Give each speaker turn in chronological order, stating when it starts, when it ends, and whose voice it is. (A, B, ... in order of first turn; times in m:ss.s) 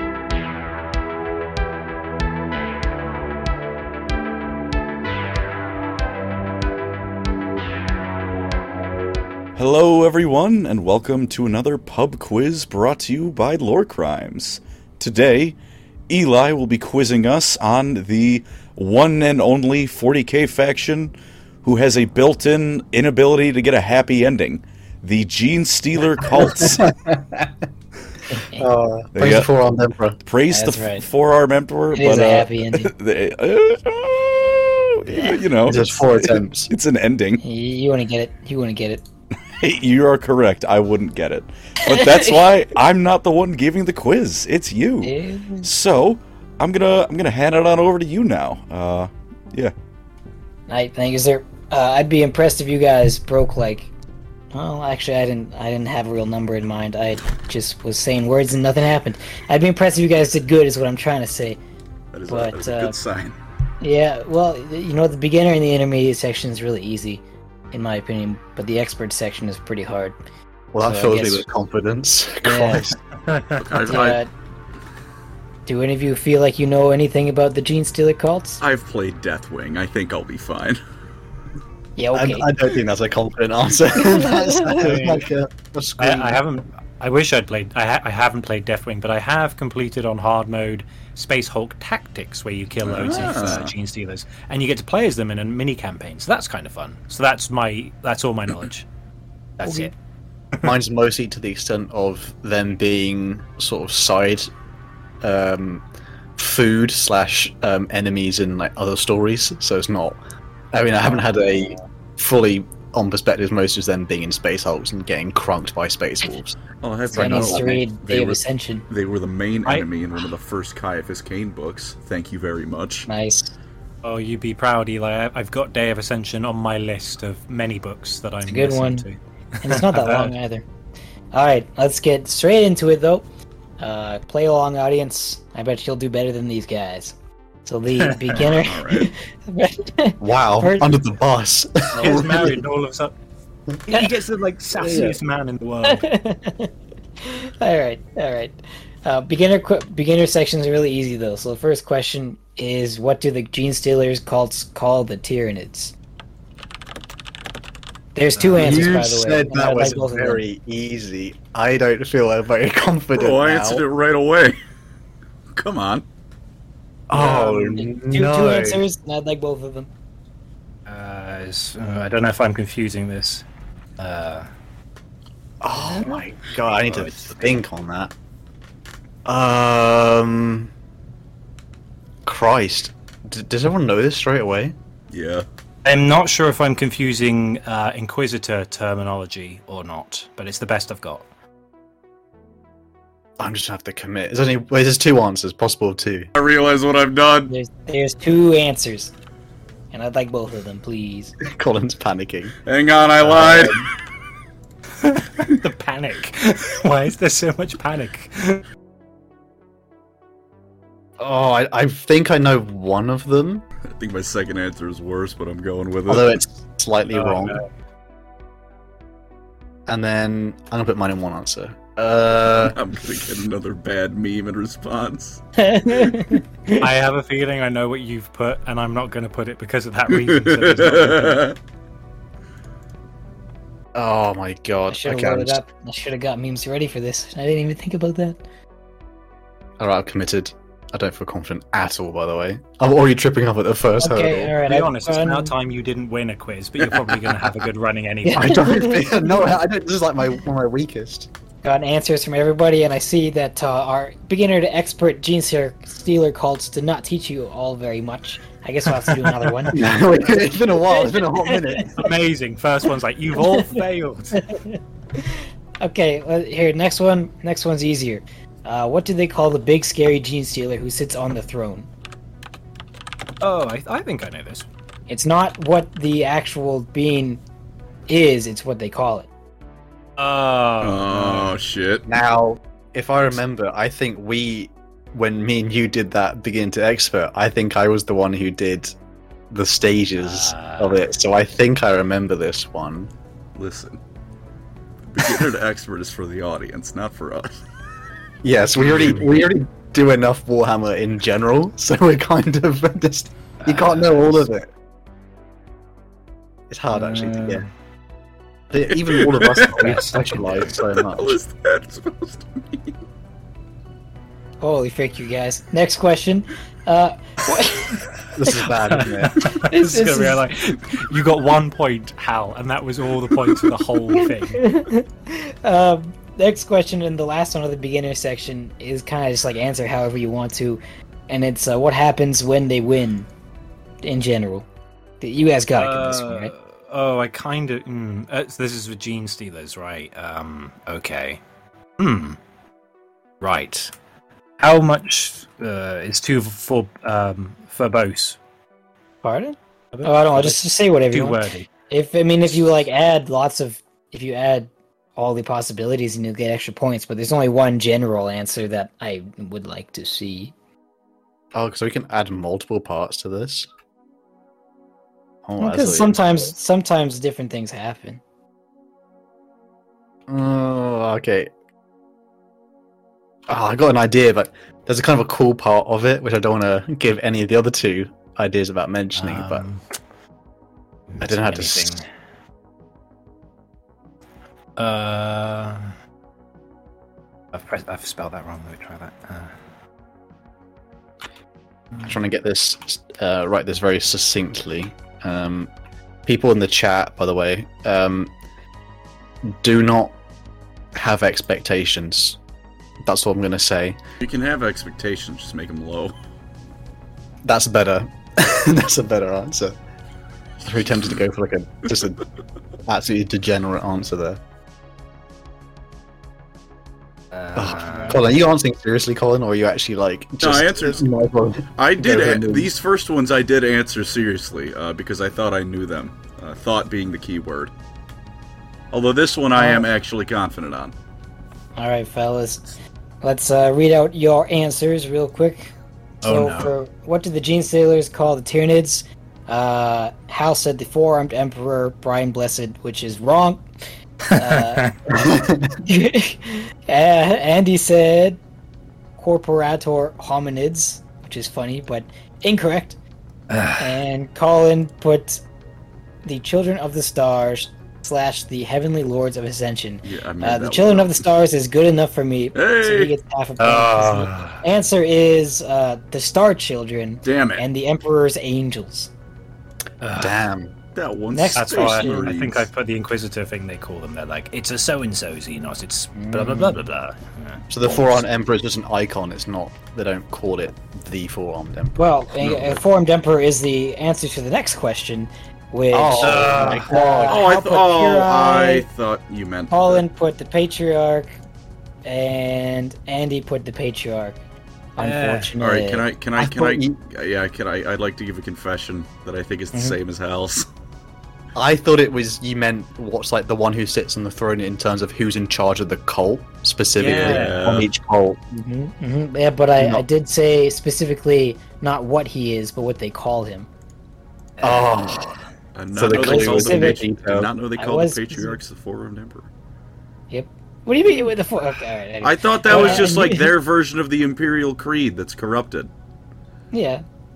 0:09.6-0:15.6 A
0:16.1-0:26.9 A
0:26.2-0:27.5 B
0:28.6-0:30.2 B
0:29.2-0:29.5 A
0:30.2-0:37.4 A
0:30.5-0:31.0 C
0:31.9-0:32.9 C
0:35.1-0:35.4 C
0:35.7-0:36.7 B
0:37.4-0:39.0 C
0:39.5-0:49.7 A
0:41.8-0:42.4 C
0:45.0-0:45.7 C
0:50.7-0:53.9 C
0:54.5-1:01.6 C
1:02.1-1:03.4 A
1:02.3-1:03.0 C
1:03.8-1:10.2 C
1:10.7-1:13.0 B
1:10.8-1:11.5 C
1:12.4-1:12.9 C
1:13.3-1:13.6 D
1:13.6-1:14.2 A
1:13.8-1:14.3 C
1:15.7-1:18.6 C
1:18.6-1:20.8 A
1:22.0-1:22.5 C
1:22.1-1:26.4 B
1:24.3-1:24.8 C
1:24.8-1:25.3 D
1:26.0-1:38.9 D
1:32.8-1:33.7 A
1:33.0-1:33.5 B
1:39.6-1:39.9 D
1:40.6-1:44.5 B
1:45.2-1:45.8 B
1:46.4-1:50.2 B
1:50.7-1:56.6 B
1:56.8-2:03.1 A
1:57.1-1:57.8 B
1:57.1-1:58.9 C
2:03.1-2:03.5 C
2:04.0-2:10.3 D
2:08.5-2:09.0 C
2:09.6-2:10.7 C
2:11.3-2:13.2 C
2:13.8-2:21.0 C
2:18.0-2:18.4 D
2:18.4-2:19.1 A
2:20.2-2:22.6 B
2:22.0-2:22.3 C
2:22.0-2:23.1 D
2:23.9-2:26.0 D
2:24.8-2:25.2 B
2:25.8-2:36.0 C
2:38.2-2:40.4 C
2:38.4-2:38.9 D
2:38.5-2:43.8 B
2:43.2-2:44.6 A
2:45.5-2:46.0 A
2:47.1-2:48.8 B
2:47.2-2:49.9 C
2:47.2-2:47.5 D
2:50.9-2:53.4 D
2:54.0-2:54.5 D
2:55.6-2:58.1 B
2:55.8-2:56.2 D
2:56.8-2:57.6 D
2:59.3-3:00.7 B
3:02.3-3:04.8 B
3:05.1-3:05.4 A
3:05.8-3:11.2 D
3:13.4-3:16.3 B
3:16.4-3:17.5 A
3:17.5-3:19.1 C
3:19.9-3:21.3 C
3:21.4-3:22.6 B
3:22.7-3:23.9 A
3:23.2-3:23.9 B
3:25.0-3:28.6 D
3:31.2-3:33.6 B
3:33.9-3:36.4 A
3:36.1-3:37.6 B
3:37.1-3:37.6 D
3:39.9-3:42.8 B
3:42.5-3:45.4 A
3:45.6-3:46.9 C
3:46.8-3:51.5 D
3:50.1-3:51.6 A
3:54.0-3:55.6 B
3:54.9-3:58.4 C
3:59.8-4:04.5 B
4:04.0-4:05.5 C
4:04.6-4:08.7 D
4:08.3-4:09.4 C
4:08.3-4:11.3 B
4:11.6-4:21.8 C
4:19.0-4:19.7 D
4:19.7-4:22.1 B
4:22.0-4:24.5 D
4:23.5-4:23.8 C
4:24.4-4:31.9 C
4:33.4-4:34.7 D
4:35.1-4:37.4 C
4:38.1-4:39.3 C
4:40.2-4:41.6 D
4:40.8-4:42.1 A
4:42.1-4:48.9 B
4:49.5-4:53.1 B
4:50.2-4:51.0 D
4:53.6-4:54.0 A
4:55.1-4:57.5 A
4:58.4-5:04.7 B
4:58.8-4:59.3 D
5:03.6-5:04.4 D
5:06.7-5:07.7 B
5:06.9-5:07.7 D
5:08.7-5:11.4 B
5:09.0-5:09.9 A
5:09.6-5:10.8 D
5:10.9-5:13.0 A
5:14.6-5:18.0 C
5:18.4-5:19.4 B
5:18.5-5:24.6 D
5:19.6-5:20.4 C
5:24.1-5:33.3 C
5:34.0-5:34.7 C
5:35.2-5:36.5 C
5:35.8-5:41.4 D
5:42.0-5:42.4 D
5:43.4-5:43.9 D
5:44.6-5:48.4 D
5:49.2-6:00.5 C
5:49.9-5:51.7 D
6:01.5-6:03.7 B
6:05.4-6:06.2 B
6:05.6-6:08.2 C
6:10.3-6:11.5 B
6:13.5-6:19.6 B
6:19.2-6:19.8 D
6:21.1-6:22.0 D
6:21.2-6:22.0 B
6:24.8-6:25.9 D
6:27.5-6:29.5 D
6:32.0-6:35.7 B
6:36.3-6:38.3 B
6:39.4-6:40.2 B
6:40.9-6:42.4 B
6:43.0-6:44.0 B
6:44.2-6:46.1 A
6:47.4-6:49.8 B
6:50.6-6:52.2 B
6:52.9-6:54.4 B
6:57.3-6:58.2 D
6:57.6-7:02.7 B
7:00.4-7:01.0 A
7:01.8-7:07.7 A
7:08.9-7:10.9 A
7:09.6-7:09.9 C
7:11.8-7:12.6 C
7:13.2-7:15.7 C
7:16.2-7:16.7 D
7:16.2-7:23.6 C
7:24.3-7:24.9 D
7:24.4-7:24.9 C
7:25.1-7:25.8 B
7:25.8-7:28.4 C
7:29.2-7:33.0 C
7:33.5-7:34.0 D
7:33.8-7:35.4 C
7:36.2-7:49.1 C
7:40.0-7:41.2 A
7:42.6-7:43.1 A
7:43.6-7:44.6 D
7:47.2-7:47.6 A
7:50.0-7:50.5 D
7:50.2-7:50.8 B
7:51.0-7:52.7 A
7:51.3-7:52.3 C
7:51.6-7:58.2 D
7:56.2-7:56.8 C
7:57.7-8:02.0 B
8:02.0-8:08.9 C
8:02.4-8:02.8 A
8:05.9-8:07.4 B
8:06.2-8:06.9 D
8:07.3-8:10.0 A
8:09.7-8:11.4 C
8:12.0-8:14.4 C
8:15.0-8:16.0 C
8:15.0-8:15.5 D
8:15.6-8:20.7 A
8:16.4-8:17.0 B
8:21.6-8:28.4 B
8:27.0-8:27.6 D
8:27.1-8:27.9 A
8:28.6-8:33.7 C
8:29.8-8:30.1 B
8:34.6-8:35.4 D
8:34.6-8:35.4 B
8:35.8-8:39.5 A
8:35.9-8:37.5 B
8:36.1-8:37.0 C
8:37.8-8:38.6 C
8:40.3-8:43.5 C
8:42.2-8:45.9 A
8:42.7-8:43.1 D
8:46.7-8:47.0 C